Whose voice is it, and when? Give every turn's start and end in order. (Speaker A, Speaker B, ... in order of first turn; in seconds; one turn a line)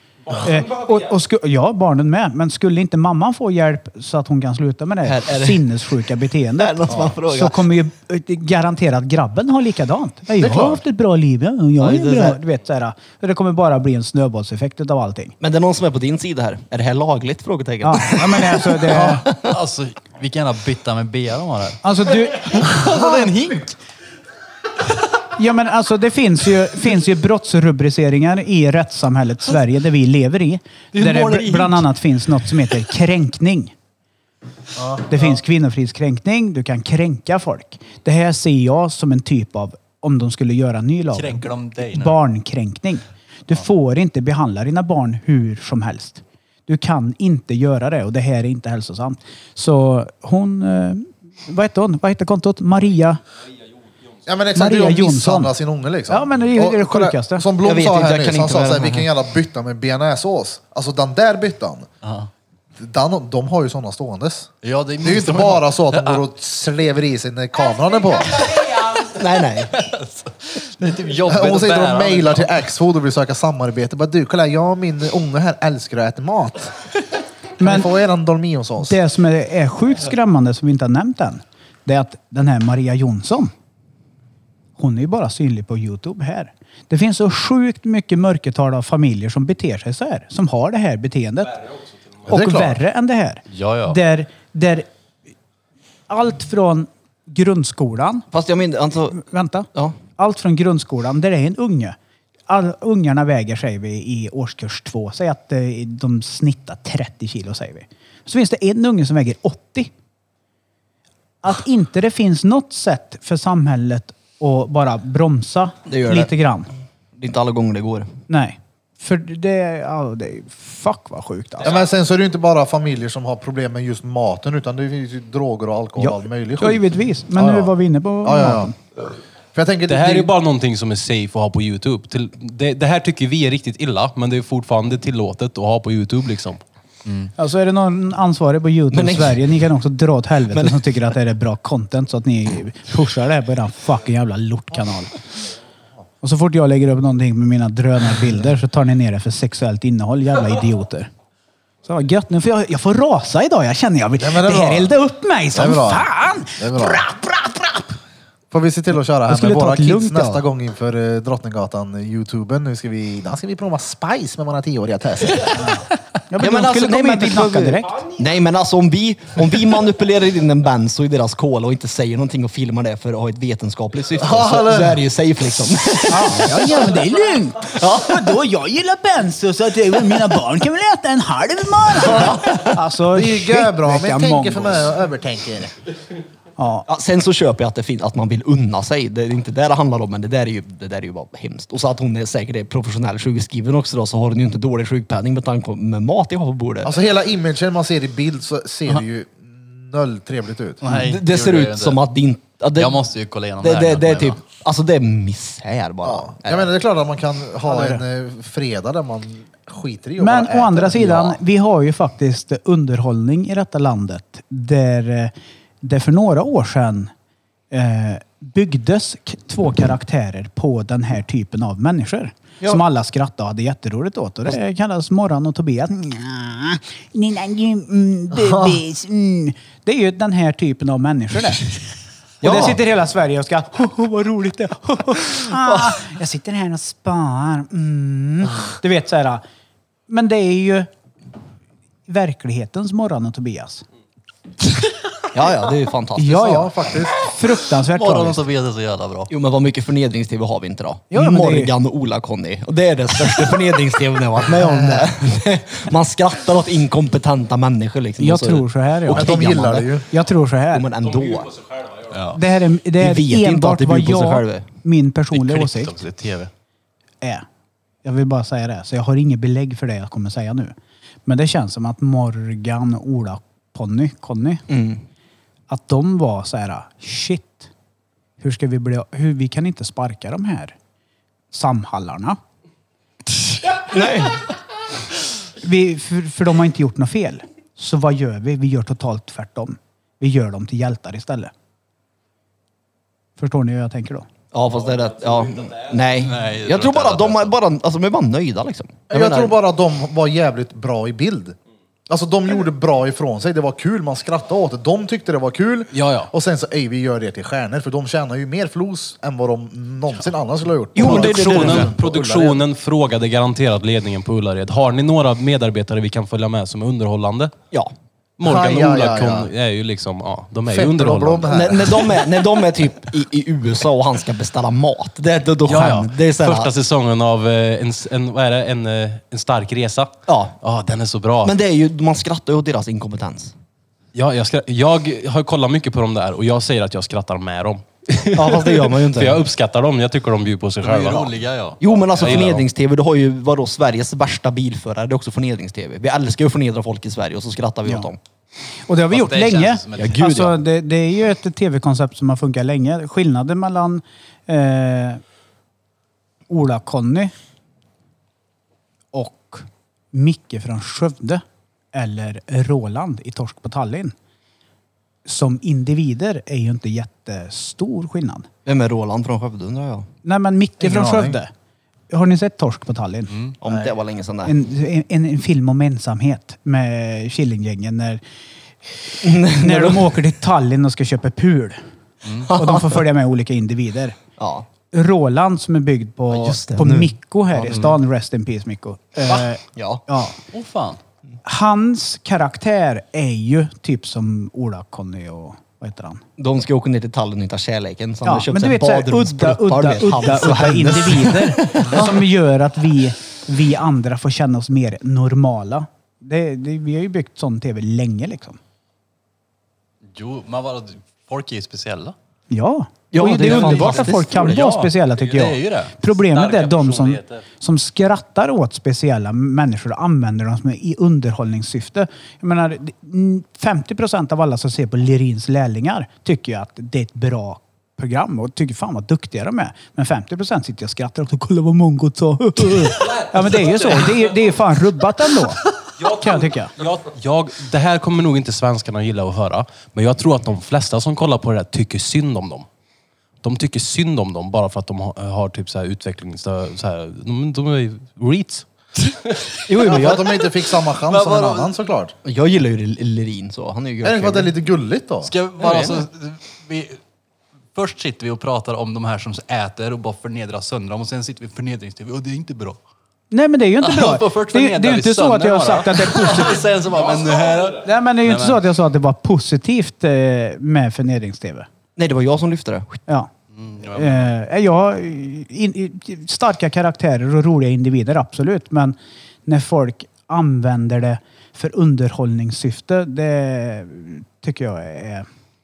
Speaker A: 0.3-15.3
Speaker B: 5.0-5.6
Speaker B: 6.6-7.6
Speaker C: 10.4-10.8
Speaker B: 11.8-12.4
Speaker B: 15.4-19.6
Speaker A: 17.8-19.2
Speaker D: 19.4-23.7
Speaker A: 21.8-23.3
Speaker A: 25.4-33.7
Speaker D: 30.9-31.9
Speaker C: 34.8-35.1
Speaker A: 35.1-53.2
Speaker D: 41.1-42.2
Speaker C: 54.2-61.9
Speaker A: 54.5-55.5
Speaker A: 56.1-57.5
Speaker B: 57.6-59.1
Speaker D: 62.0-62.3
Speaker C: 62.8-64.5
Speaker D: 64.6-66.2
Speaker C: 65.0-68.4
Speaker D: 68.5-69.1
Speaker B: 69.1-69.8
Speaker D: 69.7-72.7
Speaker C: 71.3-76.8
Speaker C: 77.6-79.0
Speaker A: 77.6-77.9
Speaker A: 78.8-83.5
Speaker A: 84.8-91.6
Speaker C: 92.3-92.8
Speaker A: 92.3-94.9
Speaker D: 93.5-94.0
Speaker A: 96.1-98.3
Speaker B: 98.3-99.2
Speaker A: 99.1-102.0
Speaker B: 99.7-100.0
Speaker A: 102.5-109.9
Speaker A: 111.4-116.7
Speaker B: 115.9-116.3
Speaker B: 117.2-118.1
Speaker A: 118.3-121.8
Speaker C: 121.6-128.7
Speaker A: 126.0-128.7
Speaker C: 129.5-130.3
Speaker E: 129.9-136.6
Speaker A: 137.4-145.2
Speaker B: 138.9-139.4
Speaker B: 140.5-140.8
Speaker A: 146.2-151.1
Speaker A: 151.8-157.9
Speaker C: 154.2-154.9
Speaker C: 155.5-157.0
Speaker C: 158.5-165.6
Speaker A: 159.3-160.4
Speaker A: 166.3-168.1
Speaker B: 166.4-176.8
Speaker C: 174.2-175.0
Speaker A: 176.1-184.9
Speaker B: 177.7-178.3
Speaker C: 183.1-185.7
Speaker A: 186.6-186.8
Speaker B: 186.9-196.9
Speaker C: 196.8-200.8
Speaker D: 200.8-202.0
Speaker B: 200.9-203.0
Speaker D: 202.7-204.4
Speaker B: 203.6-206.7
Speaker C: 206.0-211.4
Speaker A: 207.7-208.0
Speaker A: 210.2-217.1
Speaker A: 217.7-231.7
Speaker A: 232.4-239.4
Speaker B: 232.4-232.8
Speaker B: 235.5-236.0
Speaker A: 240.1-240.9
Speaker A: 242.1-243.8
Speaker B: 245.3-246.5
Speaker A: 246.2-248.4
Speaker C: 246.3-247.2
Speaker D: 247.8-249.3
Speaker B: 249.3-259.9
Speaker A: 251.1-251.7
Speaker A: 258.2-260.9
Speaker C: 259.1-260.1
Speaker B: 260.7-261.6
Speaker D: 262.1-262.4
Speaker A: 262.3-265.9
Speaker B: 263.0-264.7
Speaker D: 265.3-266.5
Speaker A: 268.0-270.7
Speaker A: 271.2-274.6
Speaker B: 274.7-275.0
Speaker A: 275.7-277.7
Speaker A: 278.4-280.7
Speaker A: 281.5-282.4
Speaker B: 283.8-284.4
Speaker A: 285.6-291.5
Speaker A: 293.4-294.3
Speaker B: 294.5-299.5
Speaker D: 296.2-297.6
Speaker C: 299.1-301.6
Speaker C: 302.1-312.6
Speaker E: 305.9-306.3
Speaker B: 310.9-312.4
Speaker E: 311.0-317.5
Speaker E: 318.4-321.5
Speaker C: 318.4-319.5
Speaker C: 320.7-322.1
Speaker B: 321.5-326.7
Speaker E: 325.6-331.5
Speaker B: 330.3-330.5
Speaker B: 331.4-333.5
Speaker E: 334.1-341.3
Speaker B: 338.3-339.4
Speaker D: 340.8-342.6
Speaker B: 341.8-348.2
Speaker E: 342.2-342.6
Speaker A: 348.9-355.2
Speaker D: 349.1-350.4
Speaker B: 350.0-350.6
Speaker A: 356.5-357.3
Speaker A: 359.1-361.4
Speaker A: 361.9-364.1
Speaker A: 365.2-368.5
Speaker B: 368.6-370.1
Speaker A: 370.2-371.5
Speaker C: 370.8-371.4
Speaker A: 372.1-373.4
Speaker D: 373.3-373.5
Speaker B: 373.6-374.6
Speaker A: 374.4-378.2
Speaker B: 379.2-380.2
Speaker A: 379.5-381.8
Speaker D: 382.2-382.5
Speaker B: 382.5-383.0
Speaker A: 382.5-384.2
Speaker B: 384.4-384.7
Speaker A: 384.8-390.4
Speaker B: 386.3-388.0
Speaker B: 389.3-390.0
Speaker D: 390.5-391.0
Speaker A: 391.4-396.2
Speaker B: 396.4-401.9
Speaker A: 398.2-408.6
Speaker D: 410.0-412.1
Speaker A: 412.5-436.7
Speaker B: 413.1-414.8
Speaker D: 413.4-415.9
Speaker E: 416.3-417.4
Speaker E: 436.0-442.7
Speaker E: 443.4-448.6
Speaker B: 449.7-450.4
Speaker C: 449.8-452.1
Speaker D: 451.1-451.7
Speaker B: 452.2-454.5
Speaker C: 454.0-455.3
Speaker D: 455.2-457.0
Speaker B: 455.6-456.0
Speaker D: 457.7-462.8
Speaker A: 463.3-466.7
Speaker D: 463.8-468.6
Speaker A: 467.8-471.7
Speaker B: 471.9-473.0
Speaker D: 473.5-474.3
Speaker A: 473.9-485.3